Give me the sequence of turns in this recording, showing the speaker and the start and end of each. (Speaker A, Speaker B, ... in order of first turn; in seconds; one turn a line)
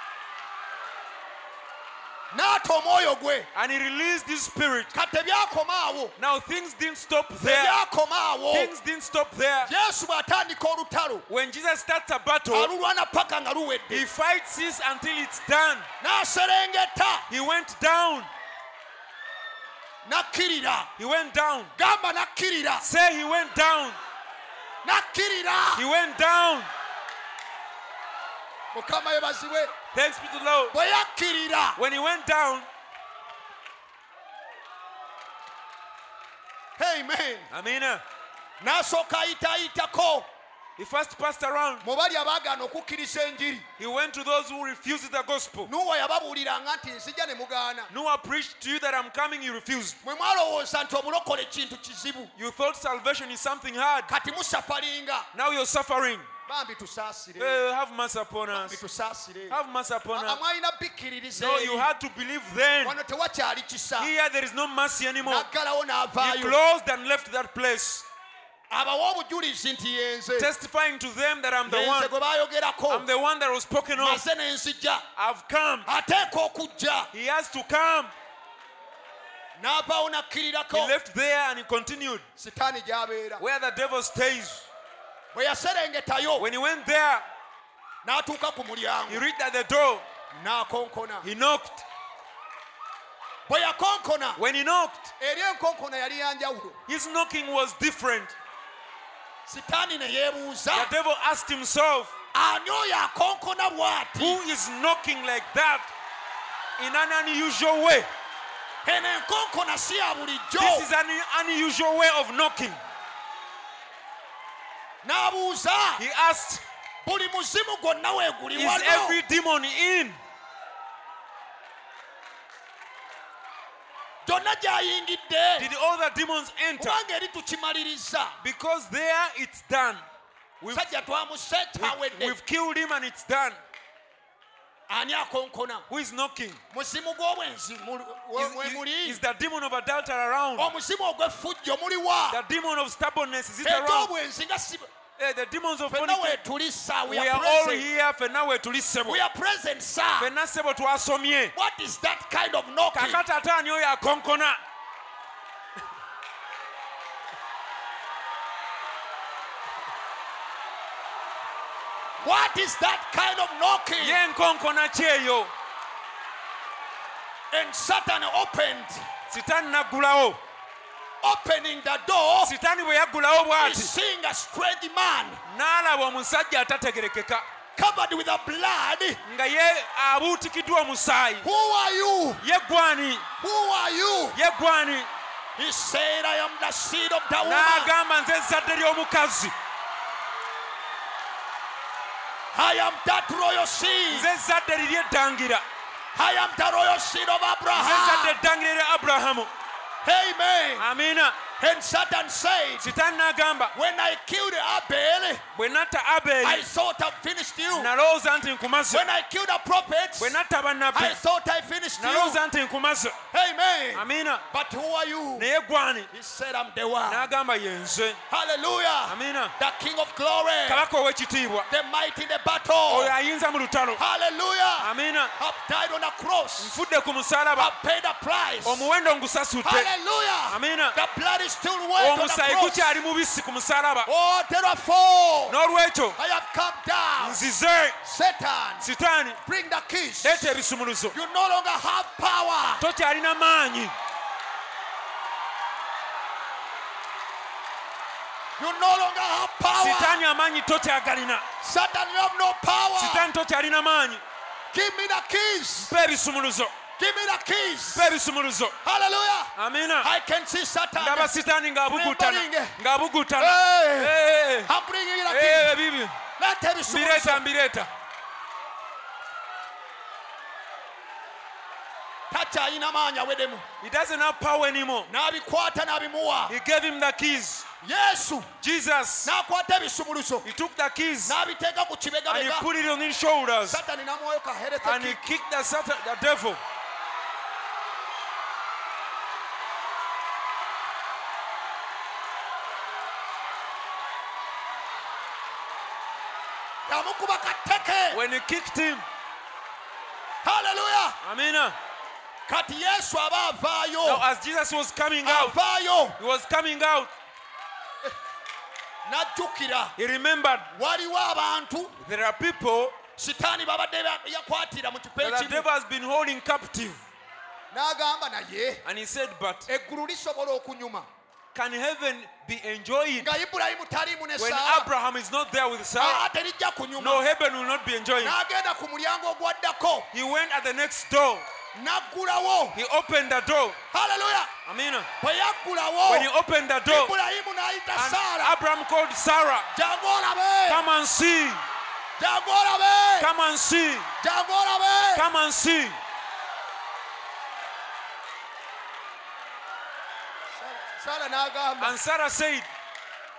Speaker A: 2.3-3.5
Speaker B: 3.5-4.9
Speaker A: 4.9-6.2
Speaker B: 6.2-7.8
Speaker A: 7.4-8.7
Speaker B: 8.5-9.7
Speaker A: 9.6-11.2
Speaker B: 11.3-12.7
Speaker A: 12.5-14.1
Speaker B: 13.9-15.9
Speaker A: 16.0-17.3
Speaker B: 17.3-18.3
Speaker A: 20.0-20.9
Speaker B: 21.0-21.7
Speaker A: 21.8-22.9
Speaker B: 22.8-24.0
Speaker A: 24.8-25.8
Speaker B: 25.7-26.7
Speaker A: 28.7-29.7
Speaker B: 29.9-30.7
Speaker A: 30.7-31.8
Speaker B: 31.8-32.7
Speaker A: 36.8-37.5
Speaker B: 37.5-38.0
Speaker A: 38.6-40.3
Speaker B: 40.8-41.8
Speaker A: 41.8-43.6
Speaker B: 43.8-45.7
Speaker A: 45.6-47.9
Speaker B: 47.9-50.0
Speaker A: 50.0-52.3
Speaker B: 52.4-54.1
Speaker A: 54.1-55.3
Speaker B: 55.3-56.3
Speaker A: 56.5-57.6
Speaker B: 57.4-58.8
Speaker A: 58.5-59.6
Speaker B: 59.5-60.4
Speaker A: 60.1-61.9
Speaker B: 61.3-63.0
Speaker A: 62.8-64.1
Speaker B: 64.0-65.5
Speaker A: 65.2-66.6
Speaker B: 66.2-68.1
Speaker A: 68.7-70.5
Speaker B: 70.4-72.1
Speaker A: 71.7-73.1
Speaker B: 72.9-74.2
Speaker A: 74.0-75.0
Speaker B: 75.2-75.9
Speaker A: 75.8-77.1
Speaker B: 77.1-78.1
Speaker A: 79.5-80.9
Speaker B: 80.7-82.2
Speaker A: 82.3-83.4
Speaker B: 83.4-84.7
Speaker A: 85.3-86.5
Speaker B: 86.4-87.2
Speaker A: 88.0-89.2
Speaker B: 89.1-90.0
Speaker A: 90.3-91.2
Speaker B: 91.2-91.8
Speaker A: 93.5-94.4
Speaker B: 94.4-95.1
Speaker A: 95.2-96.8
Speaker B: 96.9-98.3
Speaker A: 99.5-100.9
Speaker B: 100.7-102.1
Speaker A: 102.3-104.4
Speaker B: 104.2-105.9
Speaker B: 106.8-108.1
Speaker A: 108.8-110.9
Speaker B: 110.6-112.8
Speaker A: 115.0-116.0
Speaker B: 116.0-116.6
Speaker A: 117.0-119.2
Speaker B: 118.5-120.2
Speaker A: 124.2-125.7
Speaker B: 125.6-127.0
Speaker A: 126.8-128.4
Speaker B: 128.4-130.0
Speaker B: 130.6-130.9
Speaker A: 130.7-132.4
Speaker B: 131.8-133.6
Speaker A: 134.9-135.8
Speaker B: 135.9-136.6
Speaker A: 136.7-139.2
Speaker B: 138.3-140.7
Speaker A: 140.6-142.4
Speaker B: 142.3-144.1
Speaker A: 143.6-144.9
Speaker B: 145.2-146.4
Speaker A: 145.9-147.9
Speaker B: 147.1-149.2
Speaker A: 149.1-150.3
Speaker B: 150.2-151.5
Speaker A: 151.5-153.2
Speaker B: 152.9-154.6
Speaker A: 162.2-164.2
Speaker B: 164.0-165.5
Speaker A: 167.5-169.1
Speaker B: 169.3-170.4
Speaker A: 171.2-172.5
Speaker B: 172.4-173.9
Speaker A: 173.6-175.4
Speaker B: 175.4-177.4
Speaker A: 177.8-179.2
Speaker B: 179.2-181.5
Speaker A: 181.4-182.4
Speaker B: 182.4-183.2
Speaker A: 183.4-184.4
Speaker B: 184.3-185.1
Speaker A: 185.6-187.9
Speaker B: 187.4-189.5
Speaker A: 192.5-194.3
Speaker B: 194.1-195.6
Speaker A: 196.1-198.4
Speaker B: 197.7-199.5
Speaker A: 200.0-200.9
Speaker B: 200.8-201.4
Speaker A: 201.6-202.9
Speaker B: 202.8-203.7
Speaker A: 203.7-205.4
Speaker B: 205.5-206.6
Speaker A: 206.4-207.9
Speaker B: 207.7-209.0
Speaker A: 208.9-210.4
Speaker B: 210.2-211.2
Speaker A: 210.9-212.4
Speaker B: 212.0-213.2
Speaker A: 213.3-215.5
Speaker B: 213.9-214.4
Speaker B: 215.4-216.1
Speaker A: 216.1-217.3
Speaker B: 217.1-218.2
Speaker A: 218.3-220.8
Speaker B: 219.1-219.5
Speaker B: 220.7-221.7
Speaker A: 221.7-223.1
Speaker B: 222.9-224.0
Speaker A: 224.0-226.8
Speaker B: 224.8-225.3
Speaker B: 226.6-227.7
Speaker A: 227.6-228.9
Speaker B: 228.6-229.9
Speaker A: 229.6-232.9
Speaker B: 230.5-231.0
Speaker B: 232.0-234.1
Speaker A: 234.1-235.6
Speaker B: 235.5-236.2
Speaker A: 236.2-237.4
Speaker B: 237.2-238.0
Speaker A: 238.0-238.8
Speaker B: 238.8-239.4
Speaker A: 239.4-240.5
Speaker B: 240.2-241.2
Speaker A: 241.1-242.8
Speaker B: 242.8-243.9
Speaker A: 248.6-250.2
Speaker B: 249.7-251.4
Speaker A: 251.6-253.3
Speaker B: 253.0-254.2
Speaker A: 254.7-255.9
Speaker B: 255.8-256.7
Speaker A: 257.0-258.1
Speaker B: 257.9-258.8
Speaker A: 258.8-261.3
Speaker B: 259.6-260.1
Speaker B: 261.0-264.7
Speaker A: 261.9-262.8
Speaker A: 263.4-265.8
Speaker B: 265.3-266.2
Speaker A: 266.4-267.4
Speaker B: 266.9-267.9
Speaker A: 272.3-273.6
Speaker B: 273.8-275.1
Speaker A: 275.1-276.6
Speaker B: 276.5-277.7
Speaker A: 277.8-278.5
Speaker B: 278.6-279.3
Speaker A: 279.2-280.5
Speaker B: 280.4-281.4
Speaker A: 281.2-282.7
Speaker B: 282.3-283.8
Speaker A: 283.7-285.2
Speaker B: 284.8-286.6
Speaker A: 296.9-298.2
Speaker B: 298.1-299.0
Speaker A: 300.4-301.2
Speaker B: 301.2-301.8
Speaker A: 302.5-304.2
Speaker B: 304.0-305.6
Speaker A: 305.2-306.2
Speaker B: 306.2-307.1
Speaker A: 309.0-309.9
Speaker B: 310.0-310.7
Speaker A: 310.7-311.9
Speaker B: 312.0-313.0
Speaker A: 313.2-315.7
Speaker B: 315.2-317.0
Speaker A: 317.7-318.8
Speaker B: 318.8-319.7
Speaker A: 319.7-321.1
Speaker B: 321.5-323.3
Speaker A: 323.2-324.9
Speaker B: 324.4-326.2
Speaker A: 326.0-327.2
Speaker B: 327.0-328.4
Speaker A: 328.2-330.1
Speaker B: 330.1-331.4
Speaker A: 331.7-332.8
Speaker B: 332.7-333.8
Speaker A: 333.9-334.5
Speaker B: 334.6-335.1
Speaker A: 335.2-336.3
Speaker B: 336.1-337.1
Speaker A: 336.9-338.6
Speaker B: 337.9-339.7
Speaker A: 339.7-340.9
Speaker B: 340.7-341.6
Speaker A: 342.2-343.3
Speaker B: 343.2-344.1
Speaker A: 344.2-345.3
Speaker B: 345.1-346.0
Speaker A: 350.5-352.0
Speaker B: 351.8-352.6